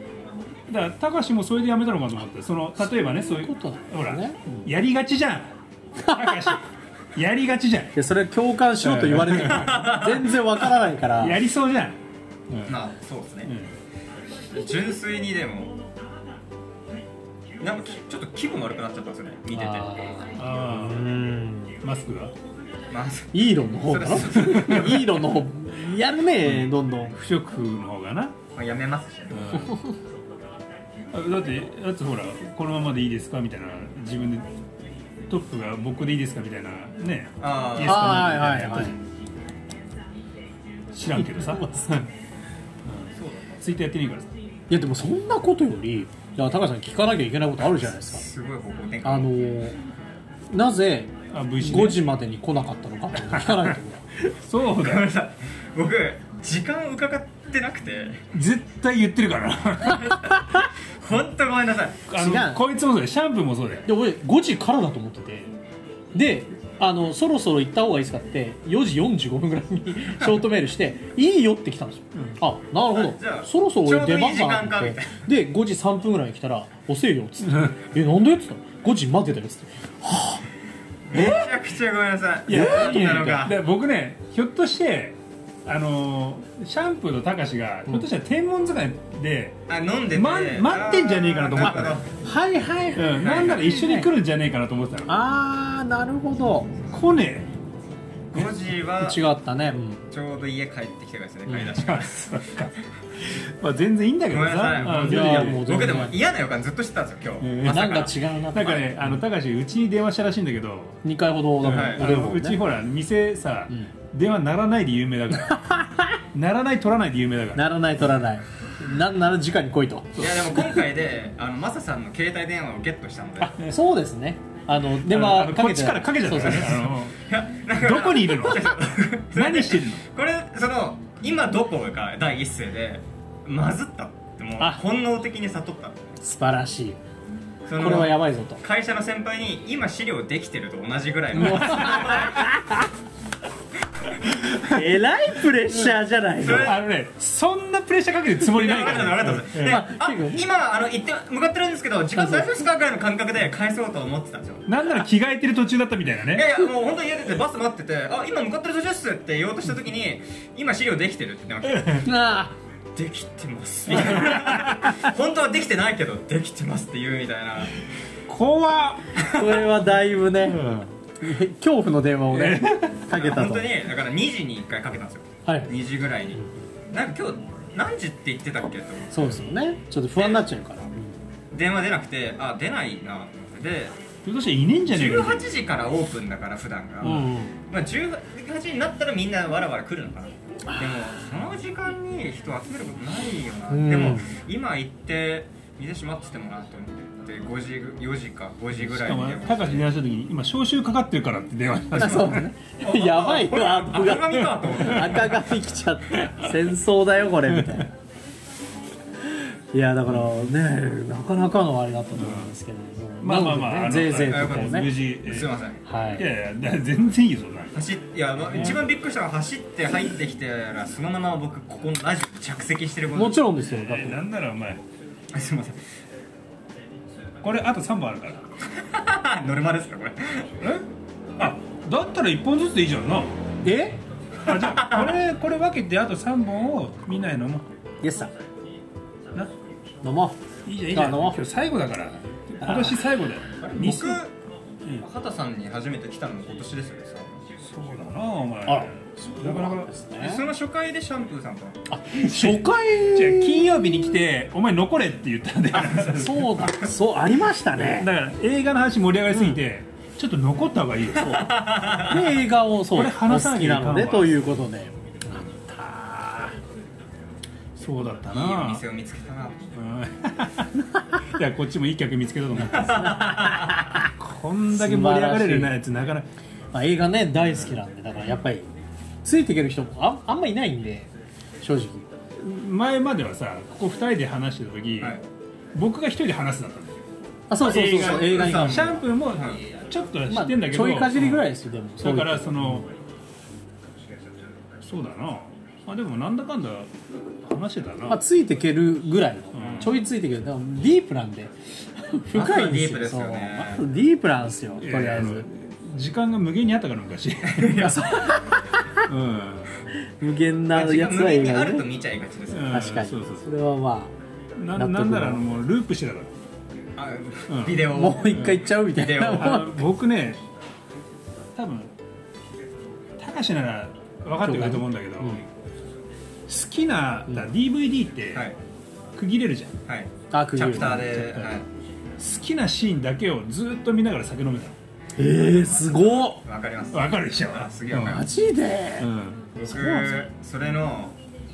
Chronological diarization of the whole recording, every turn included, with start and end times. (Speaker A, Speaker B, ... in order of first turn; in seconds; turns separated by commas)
Speaker A: 0.7-8.0, Speaker B: 3.2-4.7, Speaker B: 6.0-6.6, Speaker B: 7.9-11.4, Speaker A: 8.8-9.8, Speaker C: 9.3-10.4, Speaker A: 11.2-12.0, Speaker A: 12.5-12.8, Speaker C: 12.7-13.5, Speaker A: 13.4-13.7, Speaker C: 14.5-15.8, Speaker C: 17.6-20.1, Speaker B: 19.5-21.8, Speaker A: 20.4-21.1, Speaker A: 21.8-22.3, Speaker C: 22.9-25.3, Speaker B: 23.3-27.1, Speaker A: 24.4-24.9, Speaker A: 26.4-28.4, Speaker C: 28.5-29.6, Speaker A: 29.3-29.8, Speaker A: 31.1-34.5, Speaker A: 35.2-39.0, Speaker C: 37.4-38.4, Speaker B: 37.8-39.0, Speaker A: 40.9-42.0, Speaker B: 41.1-42.0, Speaker A: 42.8-44.3, Speaker C: 43.1-43.6, Speaker B: 44.7-48.2, Speaker C: 48.0-49.3, Speaker B: 49.0-49.8, Speaker B: 50.5-54.1, Speaker A: 51.3-52.0, Speaker A: 53.2-53.8, Speaker A: 54.3-55.1, Speaker C: 54.7-58.3, Speaker A: 58.3-60.2, Speaker C: 61.0-62.0, Speaker A: 62.1-63.9, Speaker B: 62.1-62.6, Speaker B: 63.9-65.5, Speaker B: 66.1-80.4, Speaker C: 72.9-75.2, Speaker A: 77.5-77.7, Speaker C: 81.1-83.6, Speaker B: 81.1-81.5, Speaker A: 82.5-89.6, Speaker B: 82.5-83.4, Speaker C: 89.7-92.2, Speaker A: 90.1-92.0, Speaker B: 91.6-94.1, Speaker A: 92.9-95.1, Speaker C: 93.2-93.7, Speaker B: 95.1-96.7, Speaker A: 96.9-97.5, Speaker C: 98.3-99.2, Speaker B: 99.0-100.0, Speaker C: 100.1-102.4, Speaker A: 101.7-105.9, Speaker C: 104.3-108.2, Speaker B: 104.8-106.2, Speaker A: 107.4-111.0, Speaker B: 107.6-109.0, Speaker B: 111.0-112.6, Speaker A: 111.6-115.6, Speaker C: 111.6-112.2, Speaker B: 115.5-116.2, Speaker A: 116.3-117.7, Speaker B: 117.5-120.3, Speaker C: 120.2-123.5, Speaker B: 123.4-126.8, Speaker A: 125.0-127.2, Speaker C: 126.4-136.2, Speaker A: 127.8-130.0, Speaker B: 136.2-137.0, Speaker C: 137.7-142.4, Speaker B: 137.7-138.6, Speaker B: 141.3-142.9, Speaker A: 141.4-142.0, Speaker B: 144.6-146.7, Speaker C: 146.4-146.8, Speaker A: 146.5-149.8, Speaker C: 148.4-154.8, Speaker B: 149.6-150.4, Speaker B: 152.2-152.5, Speaker A: 154.7-156.5, Speaker C: 156.3-162.1, Speaker A: 161.7-162.0, Speaker B: 162.0-162.5, Speaker C: 162.9-167.8, Speaker A: 164.0-164.9, Speaker A: 168.3-169.1, Speaker C: 169.2-169.6, Speaker B: 169.3-170.7, Speaker A: 170.4-170.9, Speaker B: 171.2-173.7, Speaker A: 172.3-172.9, Speaker C: 173.1-176.4, Speaker B: 175.4-175.7, Speaker C: 176.9-179.4, Speaker B: 179.1-181.2, Speaker C: 180.2-180.4, Speaker C: 181.5-184.0, Speaker A: 184.2-185.5, Speaker C: 184.9-199.9, Speaker B: 187.0-187.6, Speaker B: 190.7-191.0, Speaker B: 193.7-194.3, Speaker A: 198.8-202.5, Speaker B: 201.9-207.9, Speaker C: 202.8-205.6, Speaker A: 207.5-207.8, Speaker B: 209.3-214.9, Speaker A: 210.1-210.4, Speaker A: 212.1-212.5, Speaker A: 213.2-215.5, Speaker C: 214.2-215.8, Speaker B: 215.8-216.2, Speaker A: 216.1-217.8, Speaker C: 217.7-223.5, Speaker A: 218.5-218.8, Speaker B: 223.1-224.2, Speaker A: 223.6-224.8, Speaker C: 225.3-225.8, Speaker A: 227.4-228.5, Speaker C: 228.7-230.5, Speaker A: 230.6-230.8, Speaker A: 231.4-233.3, Speaker B: 233.6-234.0, Speaker A: 234.4-237.7, Speaker C: 234.4-235.2, Speaker B: 238.0-238.3, Speaker B: 240.0-240.4, Speaker A: 240.6-244.2, Speaker B: 240.9-241.4, Speaker B: 242.6-243.0, Speaker C: 243.6-244.3, Speaker C: 245.0-247.4, Speaker A: 247.6-249.9, Speaker B: 248.7-250.4, Speaker C: 250.2-251.8, Speaker B: 251.9-254.1, Speaker A: 252.1-256.4, Speaker C: 255.7-256.9, Speaker B: 256.1-258.1, Speaker A: 257.7-261.4, Speaker C: 261.2-262.4, Speaker B: 262.0-266.6, Speaker A: 262.9-264.5, Speaker A: 267.8-268.8, Speaker C: 268.3-269.7, Speaker A: 269.7-273.5, Speaker C: 272.6-274.0, Speaker B: 273.2-274.1, Speaker A: 274.1-276.2, Speaker B: 274.7-275.7, Speaker B: 276.7-278.7, Speaker B: 279.2-281.1, Speaker B: 281.6-282.1, Speaker A: 282.4-285.2, Speaker A: 285.7-287.0, Speaker B: 287.5-289.0, Speaker A: 287.6-292.9, Speaker C: 287.6-289.6, Speaker B: 290.3-292.9, Speaker A: 294.8-298.2, Speaker B: 298.1-305.4, Speaker A: 299.5-300.0, Speaker C: 302.3-303.9, Speaker A: 304.8-307.9, Speaker C: 307.4-308.4, Speaker B: 307.8-309.1, Speaker A: 309.0-309.7, Speaker B: 310.1-311.9, Speaker C: 310.7-312.8, Speaker A: 312.5-313.5, Speaker B: 312.7-314.1, Speaker A: 314.6-316.3, Speaker B: 314.8-315.4, Speaker C: 317.0-319.7, Speaker A: 317.5-318.7, Speaker B: 317.9-319.8, Speaker A: 319.2-320.4, Speaker A: 321.5-321.9, Speaker A: 323.2-325.4, Speaker B: 324.4-325.4, Speaker A: 326.5-328.5, Speaker A: 329.1-329.8, Speaker C: 329.9-331.6, Speaker B: 330.3-331.1, Speaker A: 330.8-331.6, Speaker A: 332.2-334.8, Speaker B: 335.2-336.4, Speaker C: 335.3-338.3, Speaker A: 336.9-338.2, Speaker B: 338.0-339.1, Speaker A: 339.0-339.5, Speaker C: 339.6-341.2, Speaker B: 339.6-340.3